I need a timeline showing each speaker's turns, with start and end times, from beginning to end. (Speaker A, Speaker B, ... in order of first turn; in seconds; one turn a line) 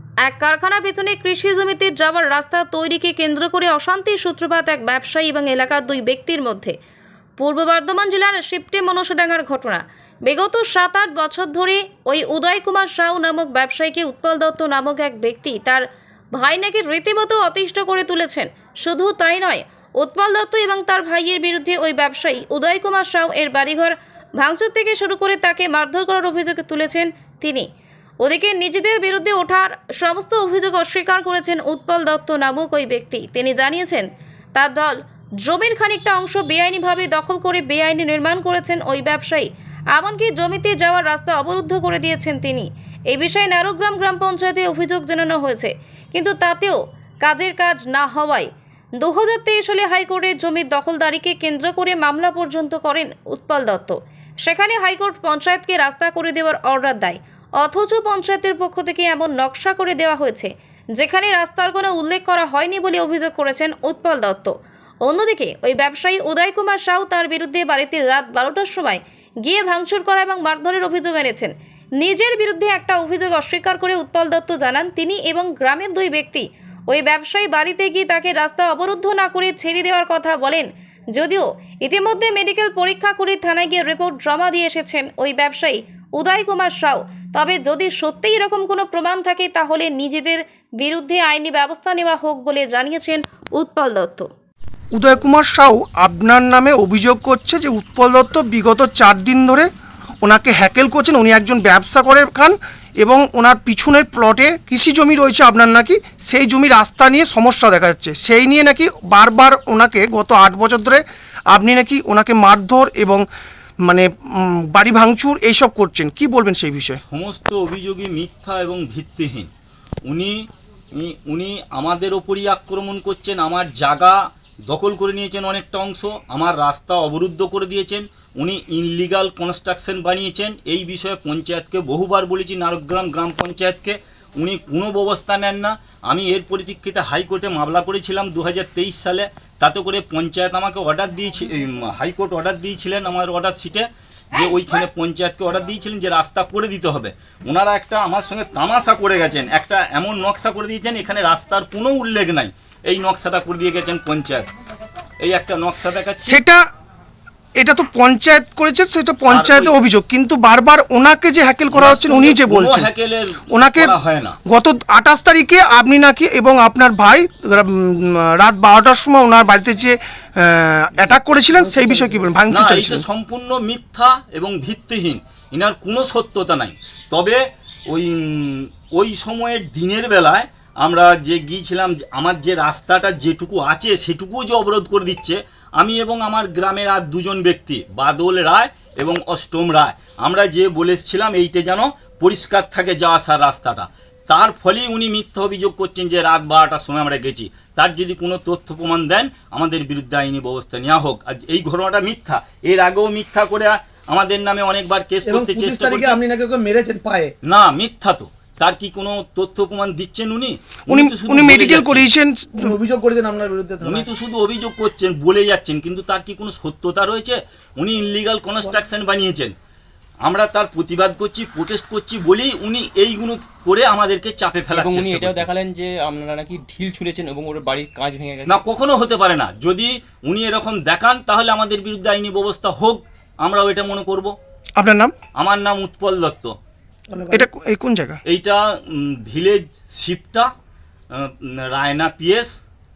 Speaker A: 0.2-6.7
Speaker A: 7.4-15.8
Speaker A: 16.3-27.7
Speaker A: 28.2-94.3
Speaker B: 94.9-99.7
Speaker B: 100.2-113.2
Speaker B: 113.9-117.0
Speaker C: 117.1-119.5
Speaker C: 120.1-120.4
Speaker C: 121.0-124.2
Speaker C: 124.7-154.5
Speaker C: 155.2-156.4
Speaker B: 156.2-156.6
Speaker B: 157.6-162.9
Speaker C: 159.3-159.7
Speaker C: 161.7-164.4
Speaker B: 163.5-173.0
Speaker D: 171.5-172.3
Speaker C: 172.5-177.4
Speaker C: 177.9-206.2
Speaker D: 205.2-207.3
Speaker C: 207.4-212.1
Speaker B: 210.9-212.7
Speaker D: 212.6-214.1
Speaker C: 213.8-219.5
Speaker C: 220.2-225.5
Speaker E: 224.7-228.6
Speaker C: 228.4-234.3
Speaker B: 234.8-235.1
Speaker C: 235.3-236.5
Speaker D: 237.1-237.5
Speaker B: 237.3-238.2
Speaker C: 238.3-240.5
Speaker C: 241.1-242.5